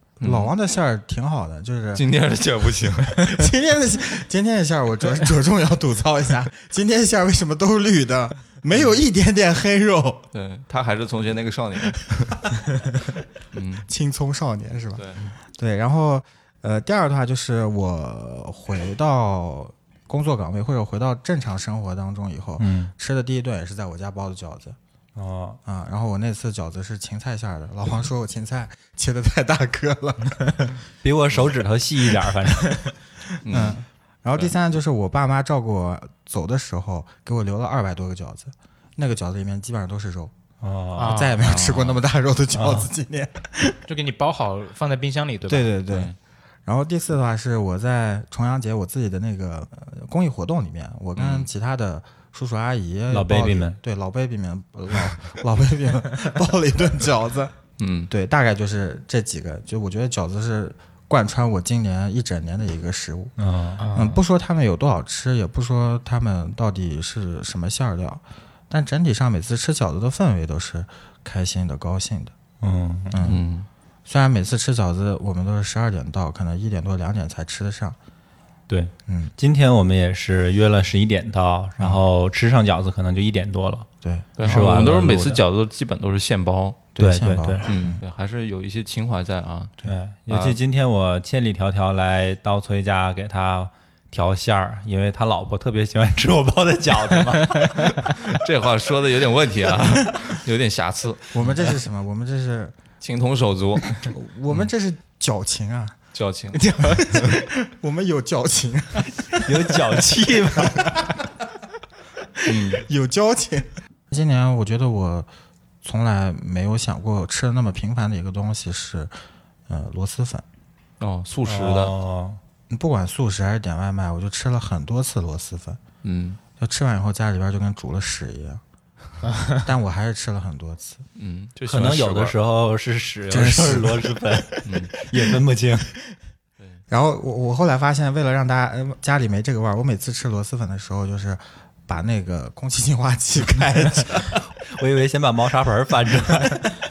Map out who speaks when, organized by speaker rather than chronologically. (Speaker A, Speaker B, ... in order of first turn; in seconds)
Speaker A: 0.2-0.5, 1.9-3.2, 10.3-12.4, 13.5-13.9, 15.0-15.2, 33.4-33.8, 41.4-42.0, 45.9-46.1, 51.2-51.5, 57.8-58.1, 73.2-73.7, 84.4-86.9, 87.6-90.6, 98.0-101.7, 103.0-104.7, 106.1-107.3, 112.5-112.8, 121.0-121.9, 126.0-126.4, 131.2-132.4, 134.7-134.9
Speaker B: 0.2-2.0, 3.2-10.3, 13.9-15.0, 15.6-24.8, 25.6-30.8, 33.5-40.3, 41.0-43.8, 45.5-46.1, 46.7-57.5, 58.1-63.4, 63.9-72.3, 73.1-73.4, 74.1-78.0, 84.0-84.6, 87.0-88.0, 101.3-102.8, 104.0-106.0, 106.5-110.0, 110.5-111.1, 112.5-115.3, 115.8-119.1, 119.7-120.4, 122.7-125.8, 126.6-128.6, 129.6-131.0, 133.3-134.0, 136.9-144.4
Speaker C: 22.6-22.9, 25.2-25.6, 31.0-32.8, 40.6-41.2, 42.5-42.9, 53.1-53.8, 63.4-63.8, 72.6-73.2, 78.7-83.9, 84.4-85.4, 87.0-87.7, 89.8-98.0, 109.4-111.0, 121.5-122.4, 131.7-135.9, 144.7-146.7
Speaker D: 41.0-41.4, 43.9-45.7, 63.8-64.2, 129.3-129.6